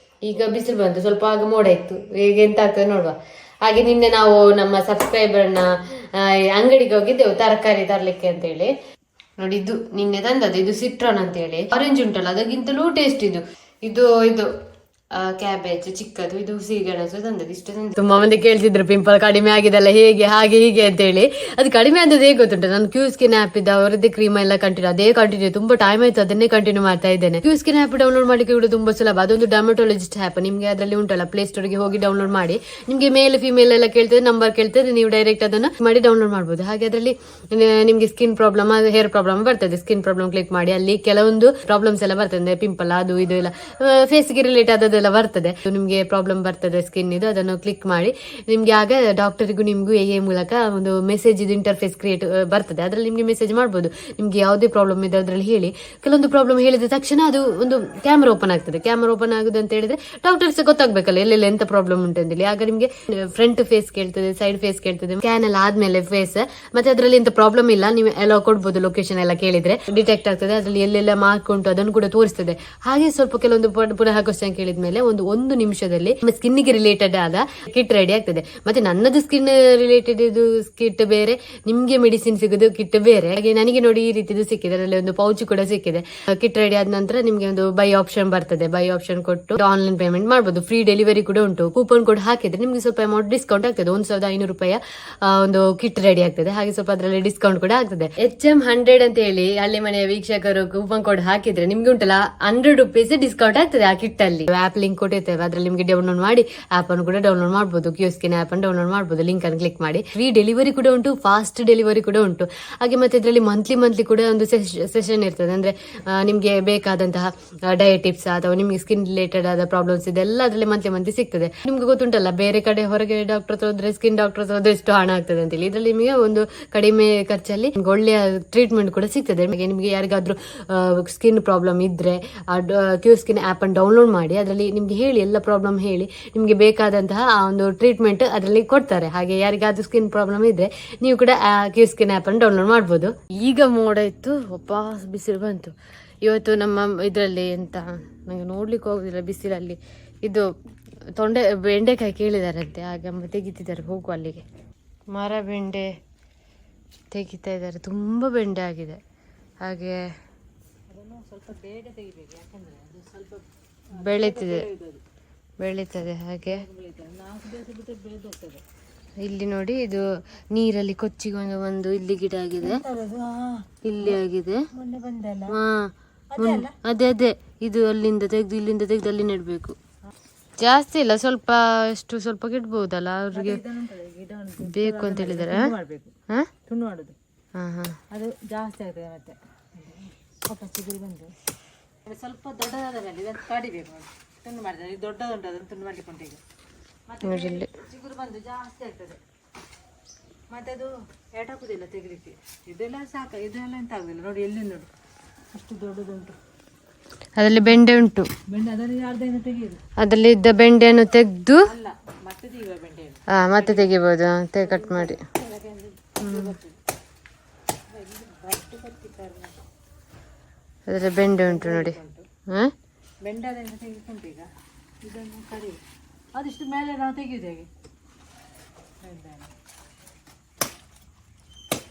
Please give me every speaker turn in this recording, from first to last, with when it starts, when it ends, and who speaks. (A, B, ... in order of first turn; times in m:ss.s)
0:00.2-0:08.7 A
0:09.4-0:14.5 A
0:15.1-2:30.4 A
2:31.2-2:34.4 A
2:35.1-2:35.9 A
2:37.1-2:39.0 A
2:39.6-2:40.0 A
2:40.9-2:45.0 B
2:43.9-2:44.7 A
2:45.6-2:46.6 A
2:46.4-2:48.6 B
2:49.2-2:52.8 A
2:52.6-2:54.1 B
2:53.8-2:54.6 A
2:54.7-2:55.6 B
2:55.5-2:59.8 A
2:56.3-2:56.7 B
3:00.6-3:03.6 A
3:03.3-3:06.1 B
3:04.6-3:05.7 A
3:06.7-3:07.2 B
3:07.6-3:08.0 A
3:08.1-3:11.3 B
3:12.1-3:16.4 B
3:17.1-3:19.2 B
3:17.2-3:17.7 A
3:20.5-3:24.9 B
3:25.5-3:26.4 B
3:27.4-3:28.3 A
3:28.5-3:29.8 B
3:30.0-3:31.6 A
3:31.7-3:33.9 B
3:33.3-3:35.2 A
3:34.6-3:36.8 B
3:36.2-3:36.6 A
3:37.9-3:39.6 B
3:40.9-3:42.0 A
3:41.2-3:42.2 B
3:42.5-3:42.7 A
3:43.2-3:44.5 B
3:45.0-3:45.8 B
3:46.4-3:47.7 B
3:49.0-3:49.5 B